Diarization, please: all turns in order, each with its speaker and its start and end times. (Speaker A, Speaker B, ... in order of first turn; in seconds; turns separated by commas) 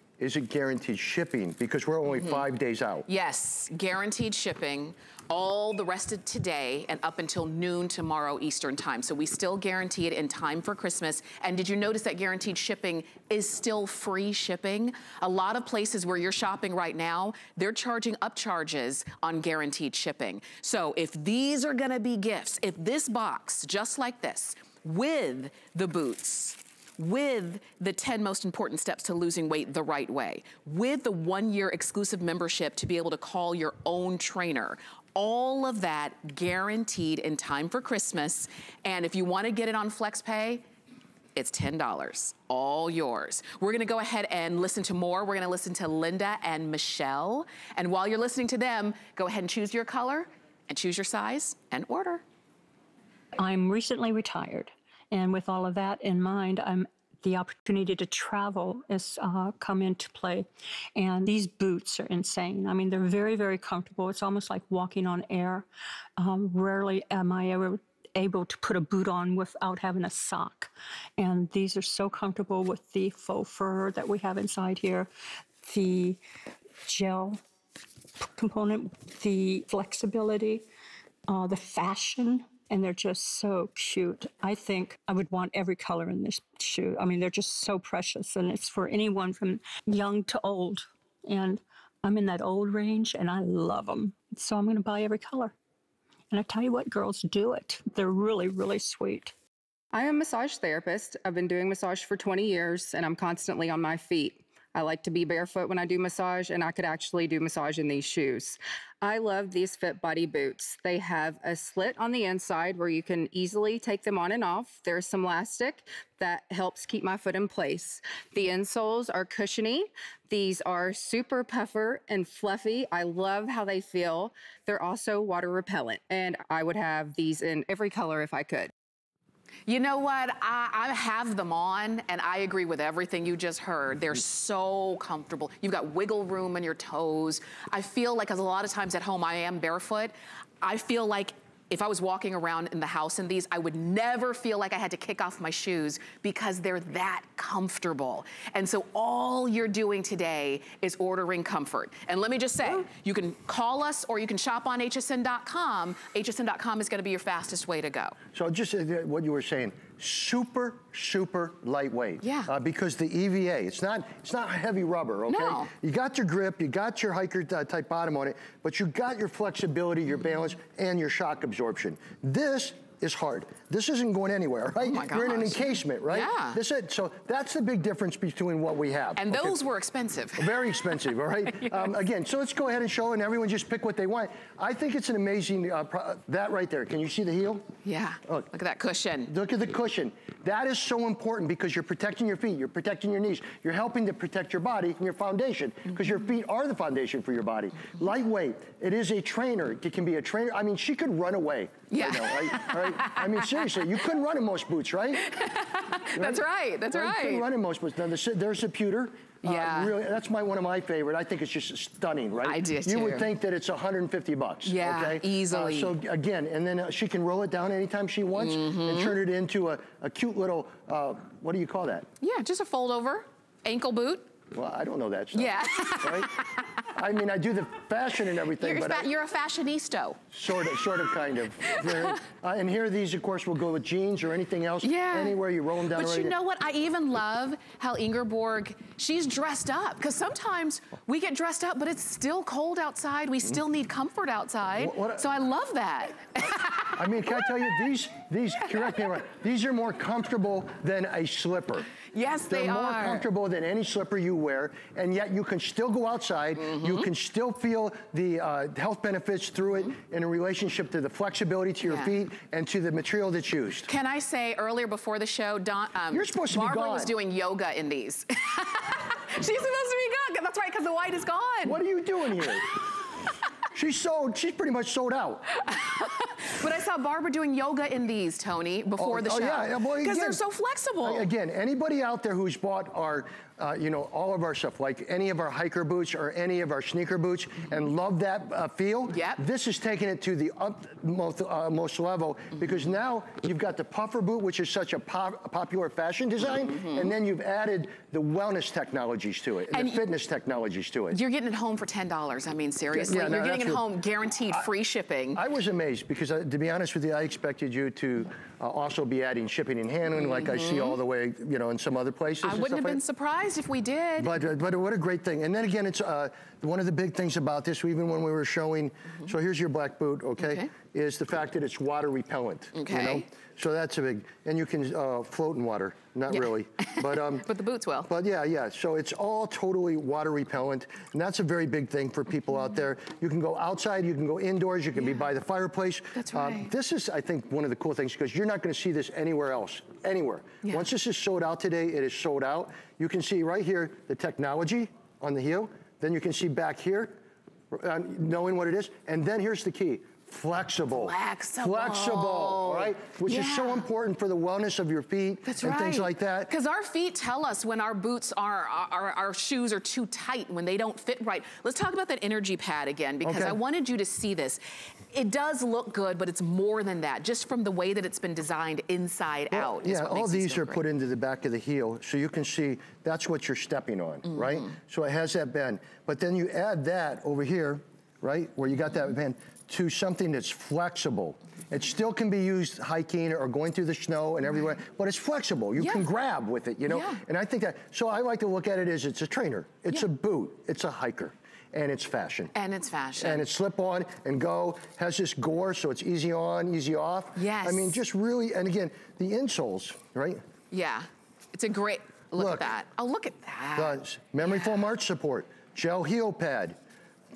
Speaker A: 0.2-3.1, Speaker B: 2.2-2.4, Speaker B: 3.1-40.6, Speaker B: 41.4-52.2, Speaker C: 53.4-65.7, Speaker C: 66.2-75.1, Speaker C: 75.6-76.2, Speaker C: 76.8-77.4, Speaker C: 78.2-80.6, Speaker C: 81.3-95.5, Speaker C: 96.3-99.3, Speaker D: 99.9-128.7, Speaker B: 129.7-158.2, Speaker A: 158.3-179.6, Speaker B: 162.2-162.5, Speaker B: 165.3-165.7, Speaker B: 174.8-176.6, Speaker B: 179.2-180.9, Speaker A: 180.4-187.7, Speaker B: 181.6-181.9, Speaker B: 187.8-189.3, Speaker A: 189.3-205.3, Speaker B: 201.9-203.7, Speaker B: 205.2-207.4, Speaker A: 206.2-222.1, Speaker B: 209.4-209.9, Speaker B: 212.4-213.3, Speaker B: 214.6-215.9, Speaker B: 218.4-219.1, Speaker B: 222.2-224.3, Speaker A: 224.5-226.3, Speaker B: 225.3-226.7, Speaker A: 226.9-229.1, Speaker B: 228.6-230.2, Speaker A: 230.3-236.3, Speaker B: 231.7-232.1, Speaker B: 234.8-235.4, Speaker B: 235.9-247.9, Speaker A: 244.8-245.2, Speaker A: 246.9-251.9, Speaker B: 252.1-253.2, Speaker A: 252.5-263.9, Speaker B: 256.6-257.1, Speaker B: 261.8-262.1, Speaker B: 263.9-271.8, Speaker A: 266.1-267.1, Speaker A: 271.6-272.8, Speaker A: 273.7-275.5, Speaker B: 275.6-281.3, Speaker A: 279.0-280.4, Speaker A: 281.0-301.2, Speaker B: 289.1-289.4, Speaker B: 296.6-297.1, Speaker B: 299.7-300.0, Speaker B: 301.1-305.4, Speaker A: 302.9-303.8, Speaker A: 305.3-313.0, Speaker B: 310.1-311.0, Speaker B: 312.4-314.3, Speaker A: 314.2-327.5, Speaker B: 320.4-320.7, Speaker B: 322.7-323.2, Speaker B: 326.3-328.1, Speaker A: 328.1-347.1, Speaker B: 335.0-335.3, Speaker B: 336.1-336.7, Speaker A: 347.7-356.5, Speaker B: 350.9-353.9, Speaker B: 355.4-370.8, Speaker A: 363.2-363.6, Speaker A: 369.5-392.5, Speaker B: 374.3-374.7, Speaker B: 385.8-386.0, Speaker B: 386.9-387.2, Speaker B: 392.5-393.4, Speaker A: 393.2-400.4, Speaker B: 397.4-398.0, Speaker B: 400.7-404.8, Speaker A: 402.4-402.7, Speaker A: 403.8-406.8